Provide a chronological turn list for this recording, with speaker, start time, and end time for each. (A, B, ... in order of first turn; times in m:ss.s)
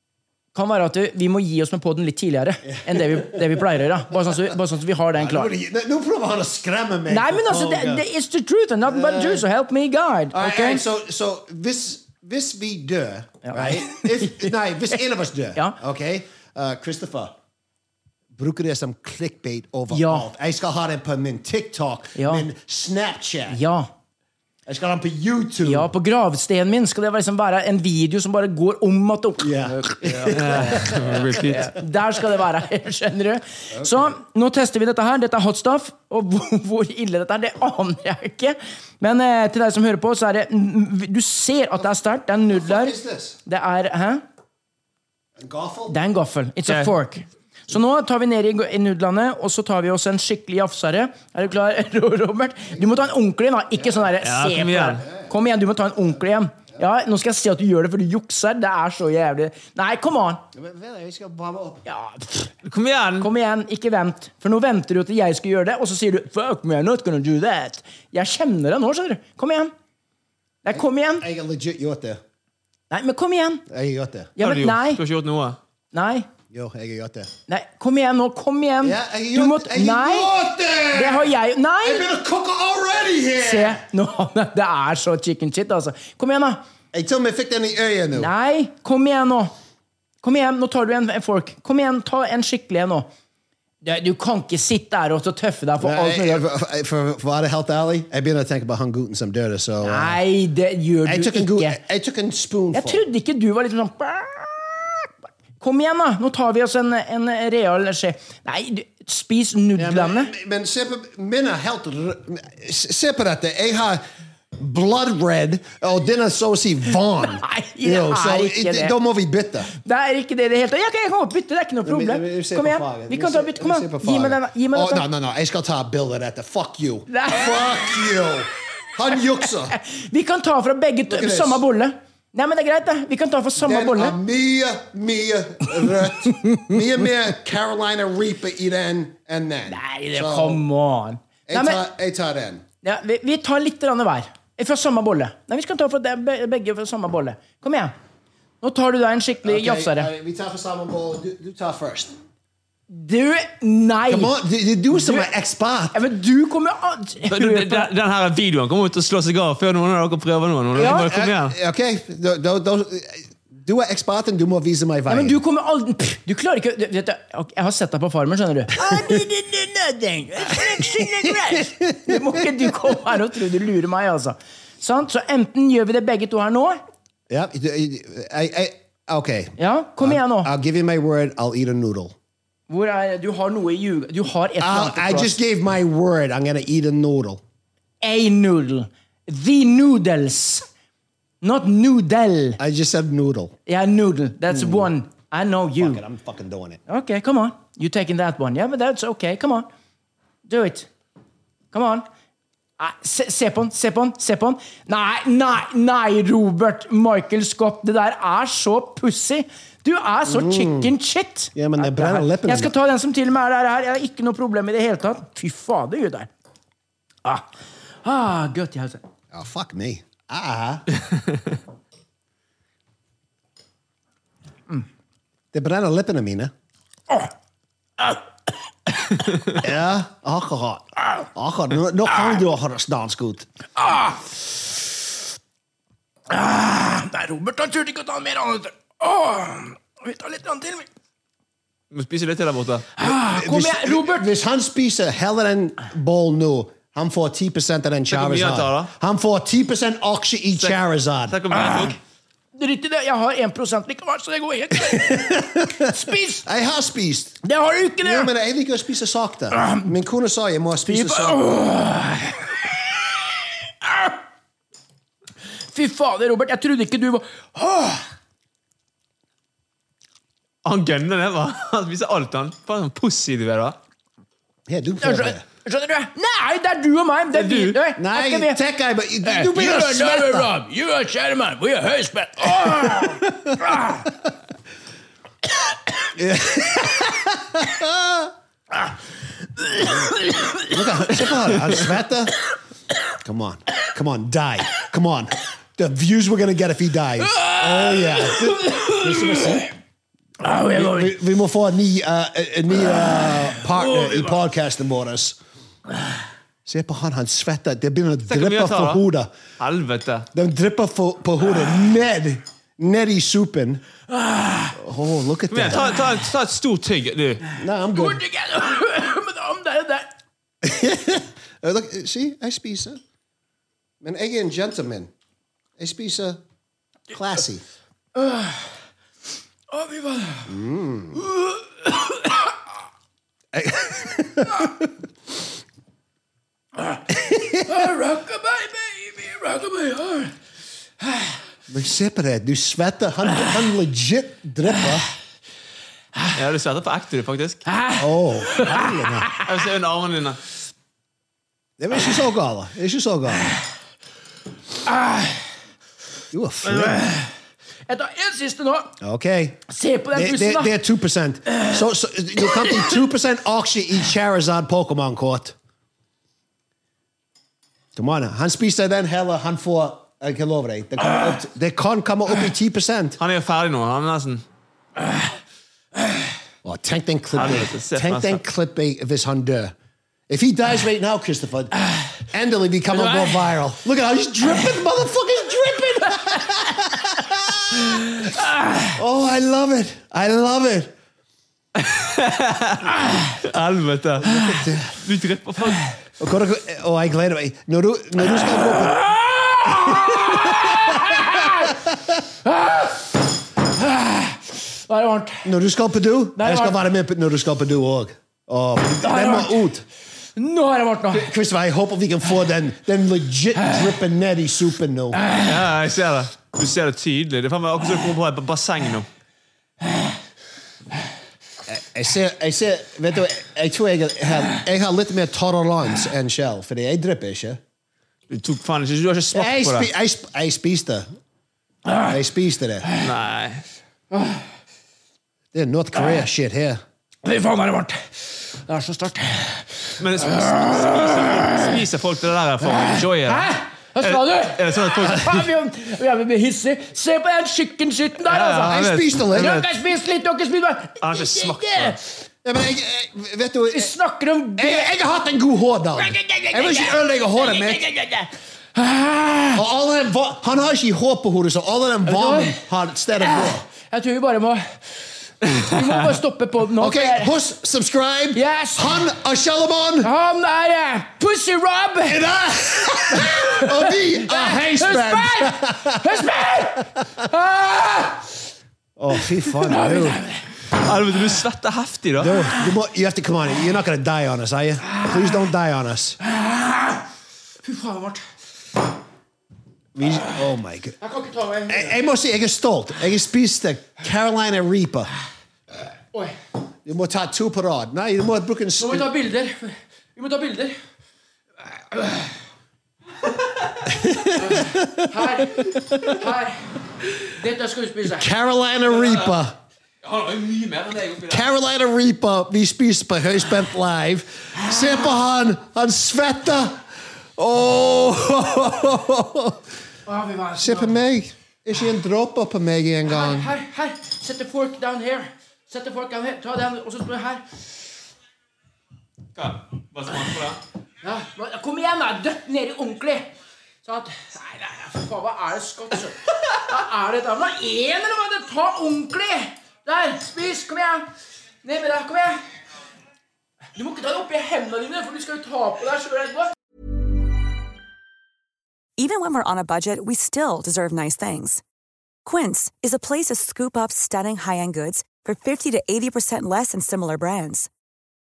0:00.5-0:05.5 A
0:02.7-0:03.6 B
0:05.1-0:08.0 B
0:07.1-0:10.8 A
0:08.9-0:09.4 B
0:10.3-0:17.4 B
0:13.4-0:15.0 A
0:18.4-0:23.6 B
0:19.9-0:20.3 A
0:22.2-0:22.5 A
0:23.5-0:23.9 A
0:24.7-0:25.9 B
0:25.6-0:44.2 A
0:29.4-0:31.5 B
0:30.3-0:31.8 C
0:33.8-0:34.1 B
0:42.5-0:43.4 B
0:45.4-0:46.0 B
0:45.9-1:00.4 A
0:54.2-0:55.0 C
0:55.0-0:55.3 B
1:00.5-1:01.8 B
1:01.9-1:02.5 A
1:02.6-1:03.3 C
1:03.2-1:09.7 A
1:10.6-1:11.3 A
1:10.7-1:12.2 B
1:12.9-1:13.6 A
1:13.7-1:14.3 B
1:14.4-1:15.0 A
1:14.4-1:15.6 C
1:15.9-1:16.3 A
1:16.5-1:17.3 B
1:17.5-1:20.3 A
1:18.8-1:21.3 B
1:20.9-1:22.1 A
1:21.8-1:23.8 B
1:23.4-1:26.6 A
1:26.9-1:28.3 B
1:28.2-1:29.5 A
1:30.2-1:33.1 A
1:33.8-1:36.5 A
1:35.8-1:40.2 B
1:39.8-1:41.8 A
1:41.0-1:43.0 B
1:42.7-1:50.3 A
1:49.8-1:54.0 B
1:54.6-1:59.7 B
1:57.2-1:59.0 A
1:59.7-2:05.0 A
2:01.8-2:09.8 B
2:07.1-2:08.2 A
2:09.7-2:14.2 A
2:11.1-2:11.6 B
2:13.6-2:20.6 B
2:19.7-2:21.8 A
2:21.5-2:22.6 B
2:22.8-2:27.9 A
2:28.6-2:30.1 A
2:29.4-2:32.2 B
2:32.9-2:34.4 A
2:34.1-2:36.0 B
2:34.9-2:35.3 A
2:35.9-2:37.9 A
2:37.3-2:41.6 C
2:40.7-2:45.4 B
2:40.8-2:41.1 A
2:45.1-2:56.8 A
2:48.9-2:49.1 B
2:50.7-2:53.2 B
2:57.3-3:02.2 B
2:59.6-3:00.5 A
3:02.7-3:05.4 A
3:04.6-3:07.4 B
3:08.0-3:10.7 A
3:11.4-3:12.6 A
3:12.6-3:13.6 B
3:13.7-3:16.0 A
3:14.5-3:14.9 B
3:15.8-3:16.8 B
3:16.9-3:19.7 A
3:20.5-3:20.9 A
3:21.7-3:22.1 A
3:22.8-3:36.3 A
3:30.3-3:30.9 B
3:31.6-3:32.7 B
3:38.0-3:39.0 A
3:39.3-3:40.9 B
3:45.5-3:46.5 B
3:49.6-3:53.5 B
3:52.1-3:52.4 A
3:53.8-3:54.8 A
3:56.3-4:00.9 A
4:01.9-4:02.9 C
4:03.0-4:04.3 A
4:03.0-4:11.4 B
4:08.1-4:08.9 C
4:10.6-4:12.0 C
4:11.5-4:12.0 A
4:12.6-4:16.5 A
4:14.8-4:15.9 B
4:16.4-4:17.4 B
4:17.4-4:18.3 A
4:18.0-4:21.4 B
4:19.6-4:19.8 A
4:20.9-4:22.7 A
4:23.8-4:24.2 A
4:25.7-4:28.1 A
4:30.6-4:33.8 C
4:34.7-4:35.4 B
4:35.0-4:38.6 A
4:37.3-4:37.8 C
4:38.0-4:40.5 B
4:39.2-4:44.1 A
4:42.6-4:43.6 B
4:46.2-4:48.3 B
4:49.6-4:50.7 A
4:50.7-4:52.3 B
4:53.2-4:59.7 B
4:57.3-4:59.6 A
5:00.4-5:01.2 A
5:00.7-5:05.4 B
5:03.0-5:04.3 A
5:06.6-5:09.3 B
5:08.3-5:09.0 C
5:09.6-5:10.3 C
5:10.3-5:13.8 B
5:14.1-5:14.8 A
5:14.8-5:15.9 B
5:15.5-5:17.4 C
5:15.7-5:16.0 A
5:17.6-5:18.2 B
5:17.9-5:20.2 A
5:20.6-5:23.0 B
5:24.0-5:25.1 B
5:25.8-5:26.4 B
5:27.1-5:27.6 B
5:28.2-5:28.7 A
5:29.7-5:30.5 A
5:30.5-5:31.2 B
5:31.2-5:32.4 A
5:33.5-5:34.9 B
5:37.1-5:37.7 B
5:37.6-5:40.3 A
5:41.0-5:41.3 A
5:41.7-5:45.1 B
5:46.3-5:47.6 C
5:47.7-5:49.4 A
5:48.0-5:49.3 B
5:49.4-5:50.4 C
5:51.8-5:53.5 B
5:54.9-5:55.4 A
5:56.3-5:57.0 B
5:56.7-5:57.3 A
5:57.9-5:59.0 A
5:59.0-6:05.6 B
5:59.7-6:00.7 A
6:02.4-6:02.9 A
6:08.0-6:13.2 B
6:13.2-6:14.4 C
6:16.6-6:19.7 B
6:17.4-6:18.4 C
6:20.3-6:28.2 B
6:23.0-6:23.3 A
6:28.9-6:30.9 B
6:31.8-6:35.9 C
6:34.2-6:35.0 B
6:36.2-6:39.1 B
6:38.6-6:41.8 A
6:39.7-6:42.1 B
6:42.4-6:45.5 A
6:45.4-6:49.8 B
6:46.4-6:46.8 A
6:49.0-6:49.6 A
6:50.4-6:51.3 A
6:51.1-6:55.2 B
6:55.4-6:59.1 C
7:01.7-7:07.6 B
7:08.3-7:09.9 C
7:09.3-7:11.1 B
7:12.1-7:12.9 B
7:13.0-7:13.6 C
7:14.2-7:14.4 A
7:15.5-7:16.8 B
7:17.2-7:21.7 A
7:20.0-7:23.5 C
7:22.7-7:32.0 A
7:24.0-7:25.5 C
7:28.3-7:29.7 C
7:28.5-7:29.6 B
7:31.0-7:32.0 C
7:32.4-7:33.9 B
7:33.7-7:34.9 A
7:34.6-7:37.9 B
7:36.0-7:39.6 A
7:39.6-7:43.6 B
7:42.1-7:42.6 A
7:43.2-7:44.8 A
7:45.4-7:47.3 A
7:46.8-7:50.1 B
7:48.4-7:49.1 A
7:50.0-7:52.2 A
7:52.1-7:57.3 B
7:52.8-7:58.3 A
7:59.0-8:00.2 B
7:59.2-8:00.4 A
8:00.8-8:02.4 C
8:02.2-8:06.2 B
8:04.8-8:05.5 A
8:06.2-8:07.0 A
8:07.6-8:08.2 A
8:10.0-8:11.0 B
8:11.0-8:12.0 A
8:11.7-8:15.1 B
8:16.8-8:19.1 B
8:18.8-8:20.8 A
8:21.9-8:22.3 A
8:23.9-8:26.2 B
8:24.3-8:26.7 A
8:27.3-8:28.3 A
8:28.1-8:29.6 B
8:29.0-8:29.3 C
8:30.0-8:31.5 C
8:31.3-8:39.7 B
8:34.6-8:34.9 A
8:40.1-8:41.0 A
8:40.6-8:43.5 B
8:43.0-8:47.4 A
8:49.4-8:50.6 C
8:51.0-8:53.3 A
8:53.8-9:01.1 A
9:01.6-9:02.4 A
9:03.8-9:06.5 A
9:09.0-9:11.6 D
9:12.2-9:17.7 D